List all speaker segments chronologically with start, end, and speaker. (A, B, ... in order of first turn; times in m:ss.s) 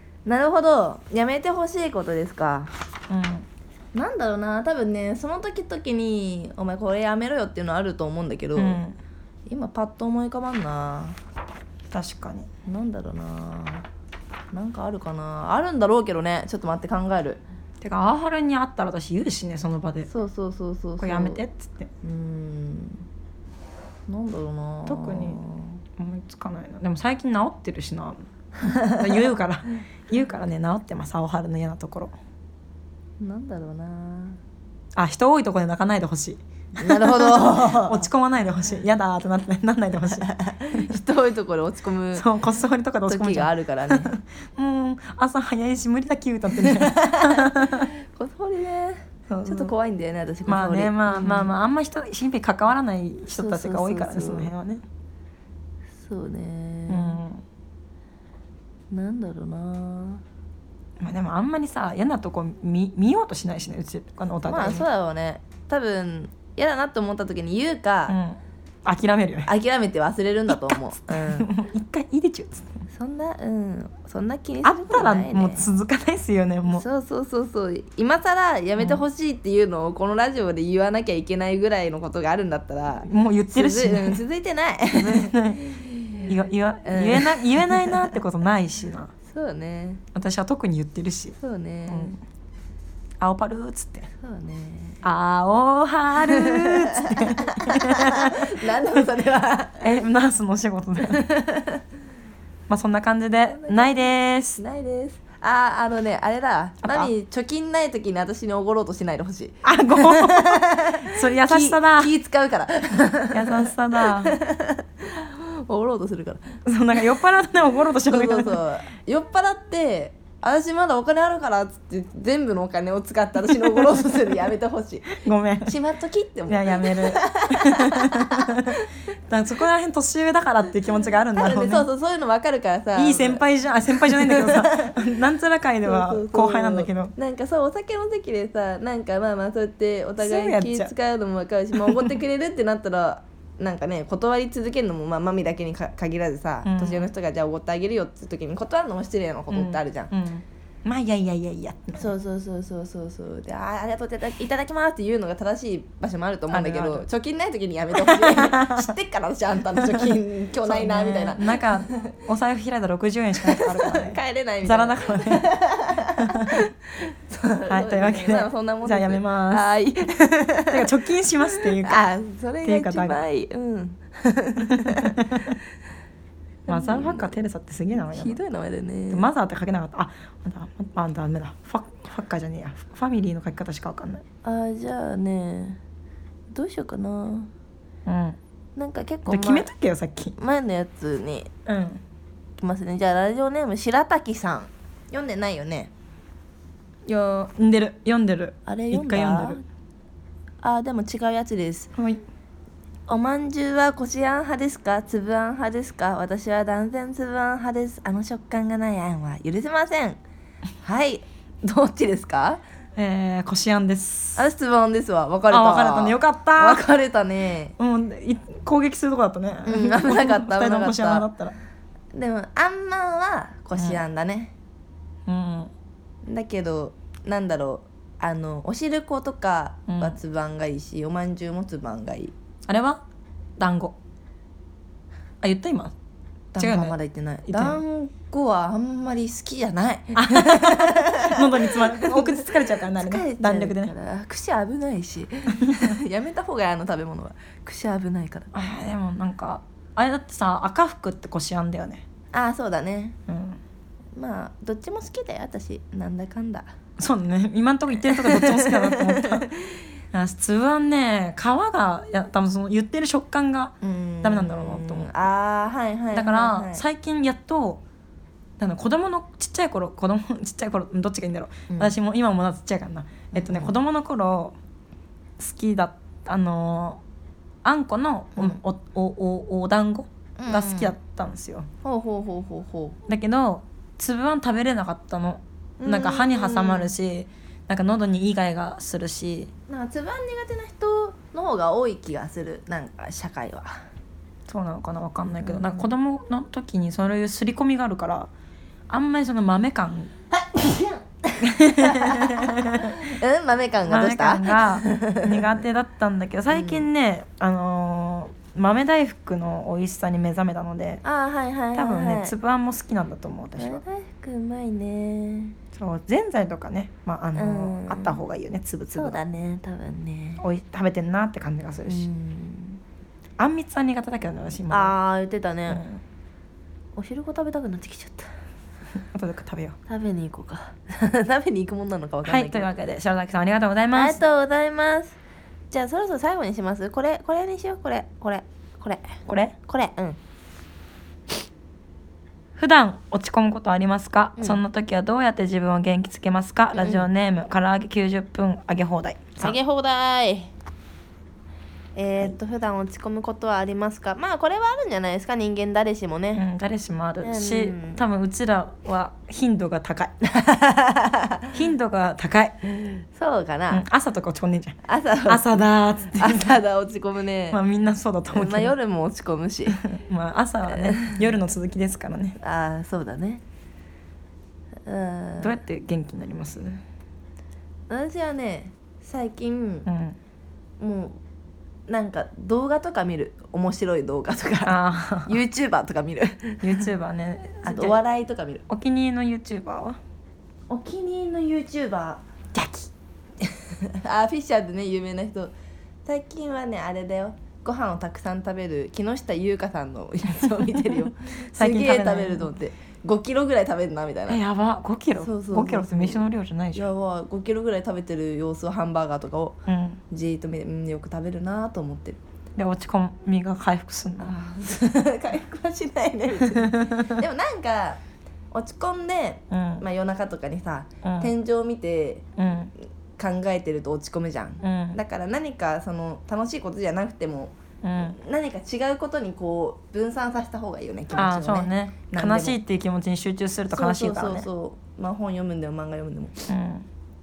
0:00.2-0:02.7 A
0:03.1-0:03.4 B
0:03.9-0:08.8 A
0:08.6-0:09.0 B
0:09.4-0:11.2 A
0:11.9-0:12.5 B
0:12.6-0:13.8 A
0:14.5-0:17.4 A
0:17.8-0:20.1 B
0:20.1-0:21.4 A
0:21.0-0:21.9 B
0:22.0-0:23.0 A
0:24.1-0:25.8 A
0:24.8-0:25.4 B
0:26.0-0:28.2 B
0:28.6-0:29.0 A
0:28.9-0:32.1 B
0:33.2-0:34.4 A
0:35.0-0:40.8 B
0:36.8-0:38.1 A
0:40.1-0:42.2 A
0:42.1-0:47.9 B
0:43.1-0:44.1 A
0:46.5-0:51.5 A
0:49.3-0:49.7 B
0:50.5-0:54.8 B
0:53.3-0:54.5 A
0:56.0-0:57.2 A
0:56.9-0:57.4 B
0:58.9-1:00.2 A
1:01.0-1:04.9 B
1:04.4-1:08.2 A
1:08.1-1:09.5 B
1:09.4-1:11.5 A
1:11.1-1:12.7 B
1:12.9-1:15.7 A
1:14.6-1:16.8 B
1:16.7-1:26.3 A
1:18.8-1:19.0 B
1:23.0-1:24.2 B
1:24.9-1:25.7 B
1:26.2-1:29.1 B
1:26.8-1:28.2 A
1:29.2-1:30.0 A
1:30.1-1:31.4 B
1:31.4-1:32.1 A
1:31.9-1:32.2 B
1:33.2-1:34.1 B
1:34.2-1:35.0 A
1:35.0-1:38.5 B
1:36.3-1:39.9 A
1:39.8-1:41.2 B
1:41.0-1:41.8 A
1:42.7-1:44.6 B
1:43.5-1:56.4 A
1:46.8-1:47.1 B
1:49.6-1:52.1 B
1:53.3-1:54.4 B
1:56.6-1:58.6 B
1:58.1-2:09.0 A
2:05.2-2:05.8 B
2:06.5-2:11.9 B
2:11.3-2:15.0 A
2:12.9-2:17.1 B
2:15.8-2:30.1 A
2:20.2-2:20.9 B
2:21.8-2:22.1 B
2:26.6-2:27.1 B
2:29.5-2:32.1 B
2:32.0-2:42.1 A
2:36.5-2:37.0 B
2:38.0-2:38.9 B
2:39.7-2:45.5 B
2:43.4-2:50.9 A
2:46.2-2:46.6 B
2:47.7-2:49.6 B
2:50.7-2:52.0 B
2:51.5-2:55.3 A
2:52.6-2:53.2 B
2:54.6-2:55.6 B
2:56.7-2:57.3 A
2:56.7-2:58.4 B
2:57.9-2:59.3 A
2:59.1-3:04.2 B
3:04.4-3:05.8 A
3:06.5-3:07.5 A
3:08.0-3:08.4 B
3:08.8-3:09.7 A
3:09.3-3:10.4 B
3:10.4-3:11.5 A
3:11.7-3:12.0 B
3:12.6-3:15.9 A
3:17.1-3:19.6 B
3:18.6-3:19.6 A
3:20.6-3:21.9 A
3:22.0-3:22.2 B
3:23.1-3:30.2 A
3:30.8-3:32.6 A
3:33.0-3:34.4 B
3:34.4-3:37.8 A
3:35.5-3:36.8 B
3:37.8-3:41.5 B
3:39.6-3:41.3 A
3:42.1-3:44.5 A
3:43.8-3:44.0 B
3:45.3-3:45.7 B
3:46.2-3:52.3 A
3:49.9-3:50.2 B
3:52.7-3:53.0 B
3:53.6-3:54.0 B
3:55.4-3:55.9 B
3:56.5-4:08.6 A
3:56.6-3:57.8 B
4:00.1-4:03.9 B
4:08.5-4:12.0 B
4:12.3-4:13.2 A
4:13.3-4:13.6 B
4:14.2-4:16.7 A
4:17.0-4:19.5 B
4:18.0-4:19.8 A
4:20.1-4:25.1 B
4:23.8-4:26.8 A
4:26.1-4:27.8 B
4:28.6-4:34.6 B
4:31.7-4:32.0 A
4:33.3-4:33.7 A
4:35.4-4:37.0 B
4:37.6-4:41.7 B
4:38.3-4:38.6 A
4:40.4-4:40.9 A
4:41.8-4:43.0 A
4:43.1-4:49.5 B
4:45.8-4:47.0 A
4:49.7-4:53.8 A
4:54.5-4:58.3 B
4:55.4-4:55.9 A
4:58.9-5:00.1 B
5:00.4-5:05.4 A
5:01.4-5:03.0 B
5:03.9-5:11.0 B
5:06.5-5:06.9 A
5:11.0-5:12.3 A
5:11.7-5:13.8 B
5:13.6-5:15.6 A
5:15.7-5:19.2 B
5:17.3-5:18.2 A
5:18.9-5:20.4 A
5:20.4-5:22.1 B
5:21.8-5:22.8 A
5:23.4-5:24.9 B
5:24.7-5:25.8 A
5:25.7-5:26.0 B
5:27.0-5:28.3 A
5:29.1-5:29.8 B
5:29.9-5:32.7 A
5:32.2-5:34.2 B
5:33.9-5:35.2 A
5:35.7-5:40.2 A
5:39.3-5:39.5 B
5:42.6-5:49.6 B
5:46.7-5:47.1 A
5:49.4-5:50.5 A
5:51.9-5:56.4 A
5:56.3-6:00.1 B
5:57.2-5:58.0 A
6:00.2-6:01.4 A
6:01.5-6:02.6 B
6:03.1-6:03.8 A
6:03.7-6:04.8 B
6:04.8-6:05.5 A
6:05.3-6:06.6 B
6:06.2-6:07.6 A
6:07.5-6:08.7 B
6:08.3-6:09.8 A
6:09.7-6:12.4 B
6:10.7-6:11.2 A
6:12.4-6:13.4 A
6:14.8-6:15.6 A
6:15.4-6:16.8 B
6:17.9-6:19.9 A
6:19.8-6:20.2 B
6:20.8-6:21.2 A
6:21.9-6:26.8 A
6:24.6-6:25.4 B
6:26.6-6:28.0 B
6:27.6-6:28.6 A
6:28.7-6:30.0 B
6:30.7-6:32.2 A
6:32.5-6:32.9 B
6:33.9-6:35.5 A
6:36.0-6:44.4 A
6:41.5-6:42.5 B
6:44.3-6:46.9 B
6:45.2-6:52.2 A
6:49.7-6:50.0 B
6:52.6-6:54.3 B
6:54.2-6:58.0 A
6:56.6-6:57.2 B
6:58.5-7:02.2 A
6:59.5-6:59.8 B
7:01.0-7:01.3 B
7:02.4-7:02.7 B
7:03.2-7:12.6 A
7:04.6-7:05.0 B
7:07.8-7:08.2 B
7:11.1-7:14.5 B
7:13.7-7:16.4 A
7:16.5-7:16.9 B